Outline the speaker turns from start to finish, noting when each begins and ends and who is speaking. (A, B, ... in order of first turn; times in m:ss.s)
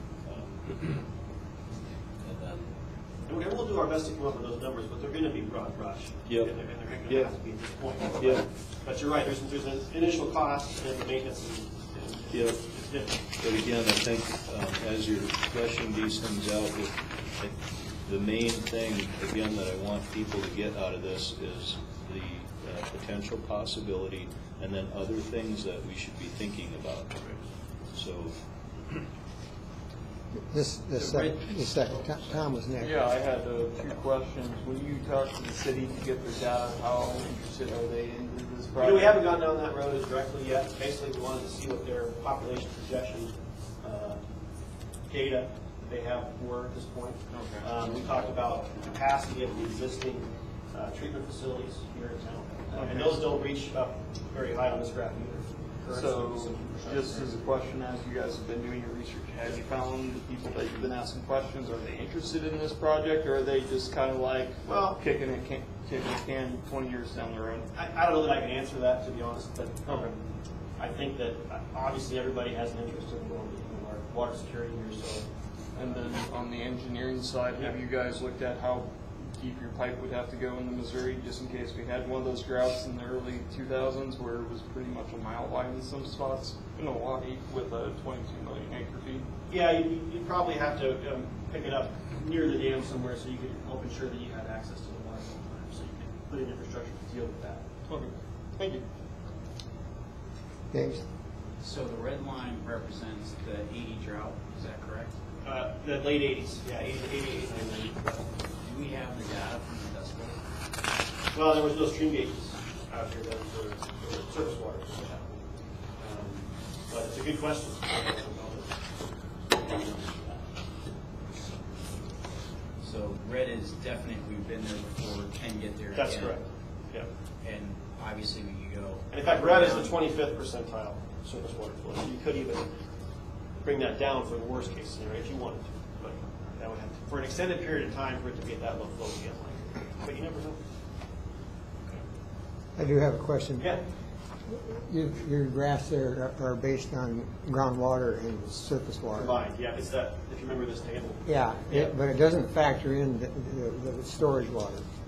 0:00.2-0:01.0 A
0:02.2-0:02.7 A
0:03.3-0:13.2 B
0:08.2-0:08.4 A
0:12.3-0:12.6 A
0:13.4-0:17.5 A
0:18.0-0:27.2 A
0:27.9-0:28.4 A
0:30.5-0:33.0 C
0:32.8-0:39.2 D
0:38.8-0:44.2 B
0:45.1-0:57.3 B
0:47.3-0:47.8 D
0:52.7-0:53.3 D
0:55.9-1:07.7 D
1:07.7-1:10.2 B
1:10.8-1:15.2 B
1:15.7-1:29.2 D
1:29.5-1:37.6 B
1:37.8-1:38.8 D
1:40.7-1:41.0 C
1:41.6-1:45.1 E
1:45.4-1:48.3 B
1:48.6-1:50.4 E
1:51.3-1:55.4 B
1:56.0-1:58.8 B
1:59.5-2:00.4 B
2:02.8-2:06.4 E
2:05.9-2:07.1 B
2:07.4-2:09.9 E
2:09.1-2:12.7 B
2:13.6-2:20.6 B
2:22.8-2:23.7 C
2:24.5-2:29.3 C
2:29.1-2:31.9 B
2:31.2-2:34.8 C